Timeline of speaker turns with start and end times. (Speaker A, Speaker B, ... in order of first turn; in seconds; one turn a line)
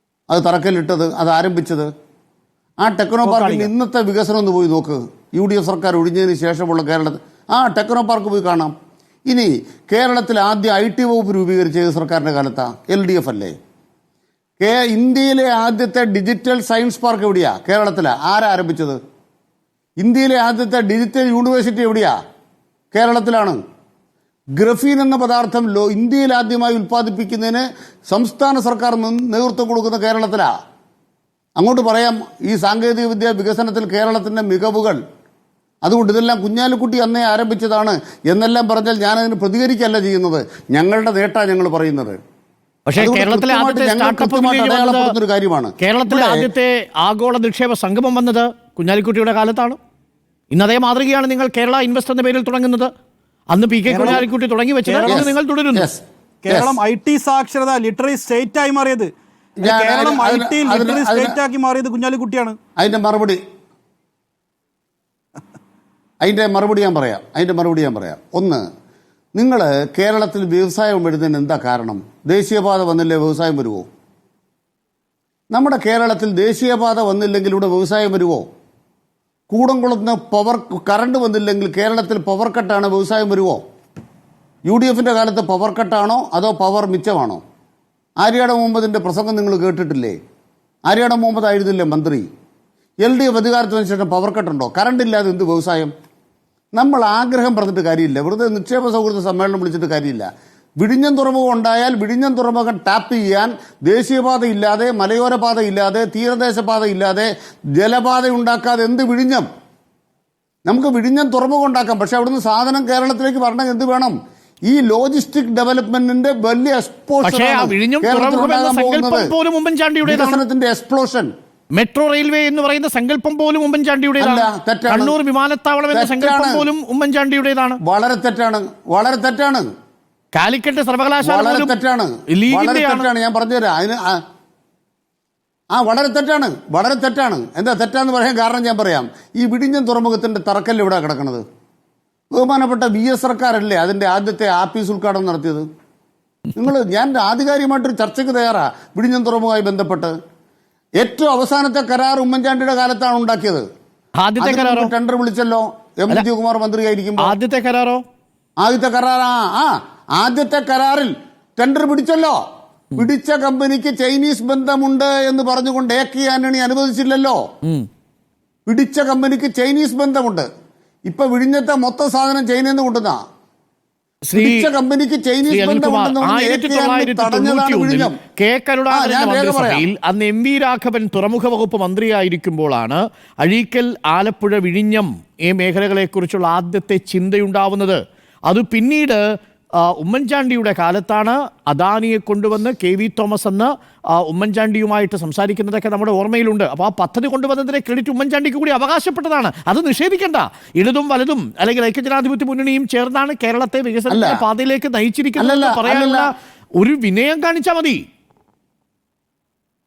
Speaker A: 0.3-1.9
Speaker A: 2.8-8.7
Speaker B: 3.2-3.7
Speaker A: 9.3-13.5
Speaker A: 14.6-19.0
Speaker A: 20.0-22.1
Speaker A: 22.9-23.6
Speaker A: 24.6-30.5
Speaker A: 31.6-35.0
Speaker A: 35.8-42.2
Speaker C: 42.9-45.1
Speaker A: 43.0-46.5
Speaker C: 45.8-49.8
Speaker C: 50.5-52.9
Speaker C: 53.5-55.9
Speaker B: 53.9-54.2
Speaker B: 54.9-55.3
Speaker A: 55.0-56.8
Speaker B: 56.4-59.1
Speaker A: 59.6-61.4
Speaker B: 59.6-62.6
Speaker A: 62.8-63.4
Speaker A: 66.2-68.6
Speaker A: 69.3-73.8
Speaker A: 75.5-78.5
Speaker A: 79.5-83.6
Speaker A: 84.7-87.4
Speaker A: 88.2-90.2
Speaker A: 90.9-92.3
Speaker A: 93.0-95.9
Speaker A: 96.7-100.3
Speaker A: 100.8-109.5
Speaker A: 110.7-114.1
Speaker A: 114.7-119.3
Speaker C: 117.2-120.4
Speaker A: 120.0-121.3
Speaker C: 121.7-127.8
Speaker A: 124.2-125.2
Speaker A: 125.9-126.7
Speaker A: 127.8-129.7
Speaker C: 130.3-131.7
Speaker A: 131.2-134.2
Speaker C: 132.3-133.1
Speaker A: 135.7-141.4
Speaker A: 142.3-145.6
Speaker A: 146.5-150.1
Speaker A: 151.0-153.6
Speaker C: 154.2-154.9
Speaker A: 154.4-157.3
Speaker C: 157.2-158.0
Speaker A: 158.6-162.4
Speaker A: 162.9-167.4
Speaker A: 168.7-170.5
Speaker A: 171.1-173.2
Speaker C: 174.3-174.7
Speaker A: 174.3-178.2
Speaker C: 175.5-189.2
Speaker A: 178.9-179.8
Speaker C: 189.8-208.0
Speaker A: 204.1-204.4
Speaker A: 205.4-206.3